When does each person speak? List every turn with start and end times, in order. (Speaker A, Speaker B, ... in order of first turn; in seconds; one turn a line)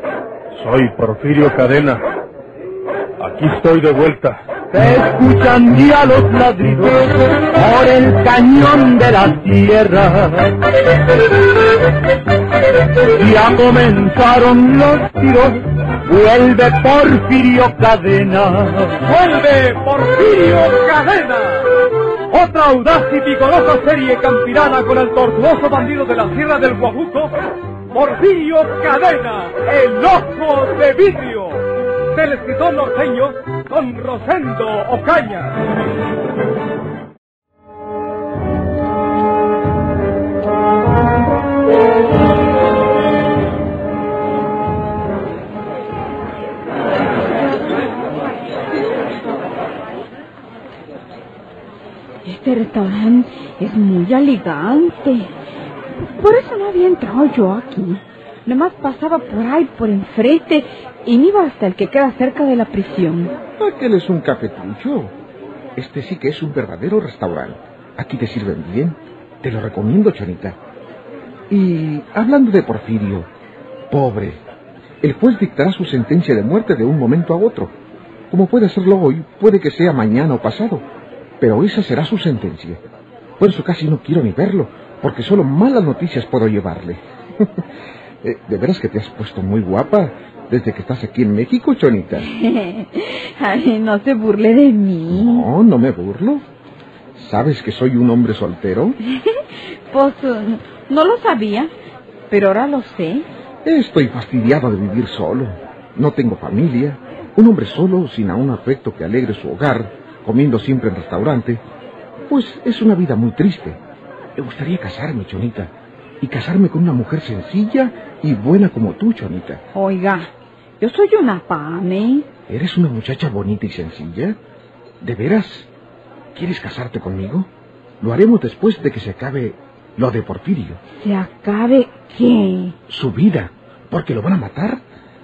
Speaker A: 0.5-2.0
Speaker A: 3.2-4.4
Speaker B: 4.7-10.6
Speaker B: 13.2-18.9
Speaker C: 19.0-21.7
Speaker C: 22.3-27.3
Speaker C: 27.9-35.6
Speaker D: 52.2-55.3
Speaker D: 55.9-63.3
Speaker E: 63.6-65.1
Speaker E: 65.8-70.6
Speaker E: 71.5-73.3
Speaker E: 73.9-74.4
Speaker E: 75.0-77.7
Speaker E: 78.3-80.8
Speaker E: 81.4-82.8
Speaker E: 83.4-87.6
Speaker E: 88.2-92.3
Speaker D: 92.2-95.5
Speaker E: 95.1-96.4
Speaker E: 97.1-99.0
Speaker D: 99.9-101.7
Speaker D: 102.3-103.3
Speaker E: 103.6-111.6
Speaker E: 112.3-113.8
Speaker E: 114.3-119.6
Speaker D: 119.7-122.3
Speaker E: 122.5-124.4
Speaker E: 125.0-125.7
Speaker E: 126.3-127.5
Speaker E: 128.0-130.8
Speaker D: 130.9-132.8
Speaker E: 132.9-134.8